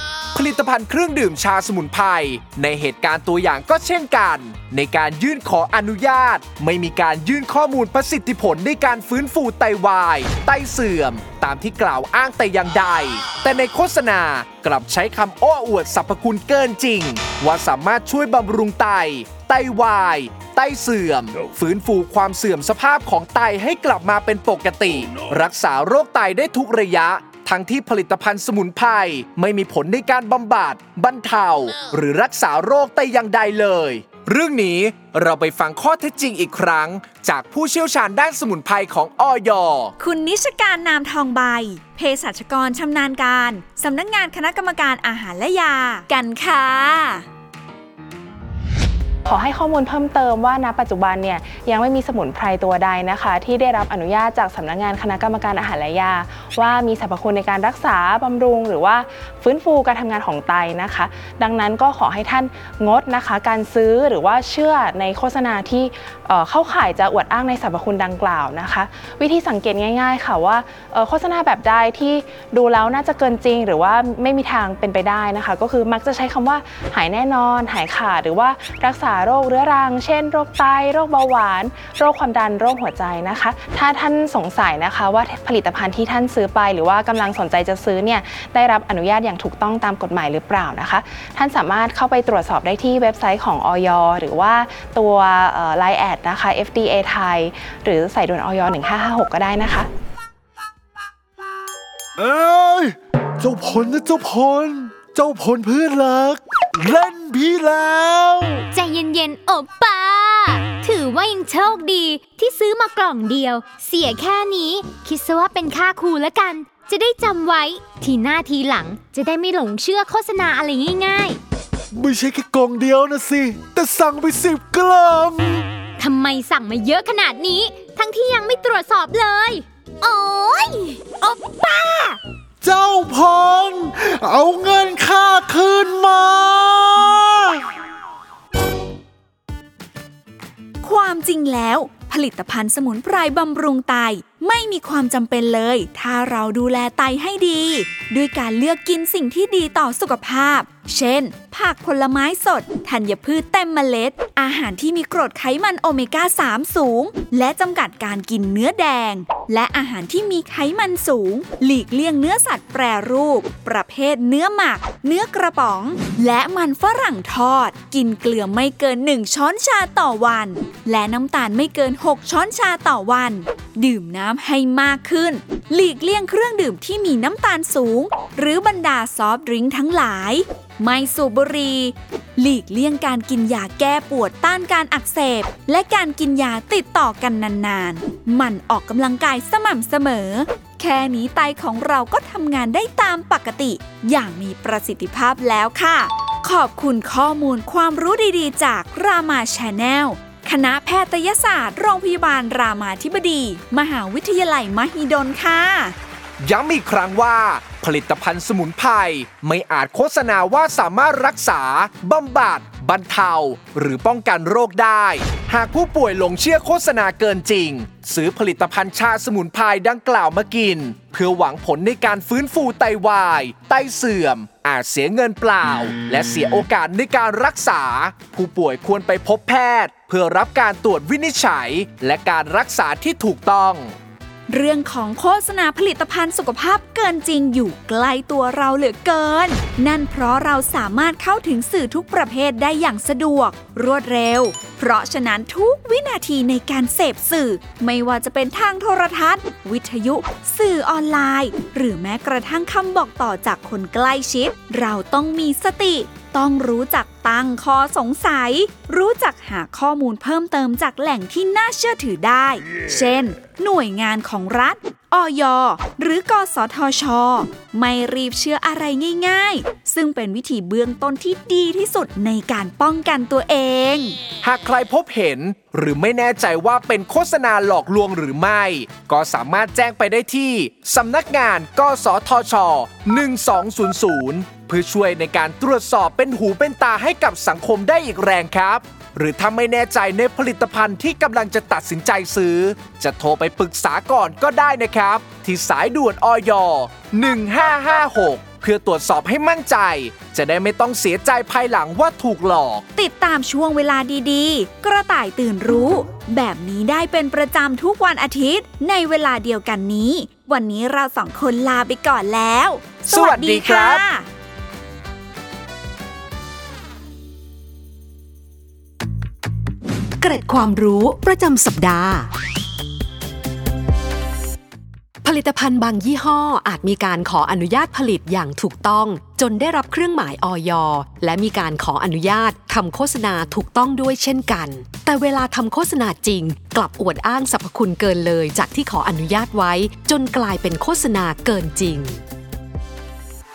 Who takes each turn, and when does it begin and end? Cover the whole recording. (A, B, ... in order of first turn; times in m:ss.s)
0:00.3-0:39.9 A
0:40.0-0:47.2 B
0:49.2-1:39.9 C
1:42.2-1:48.6 D
1:48.7-2:01.4 E
2:01.9-2:05.6 D
2:06.0-2:12.2 E
2:12.6-2:17.6 D
2:20.8-3:25.9 B
3:26.4-3:53.9 A
3:54.5-4:34.2 B
4:34.4-5:02.8 A
5:03.0-5:14.3 B
5:13.1-5:14.0 A
5:20.2-5:22.3 F
5:25.2-5:42.2 F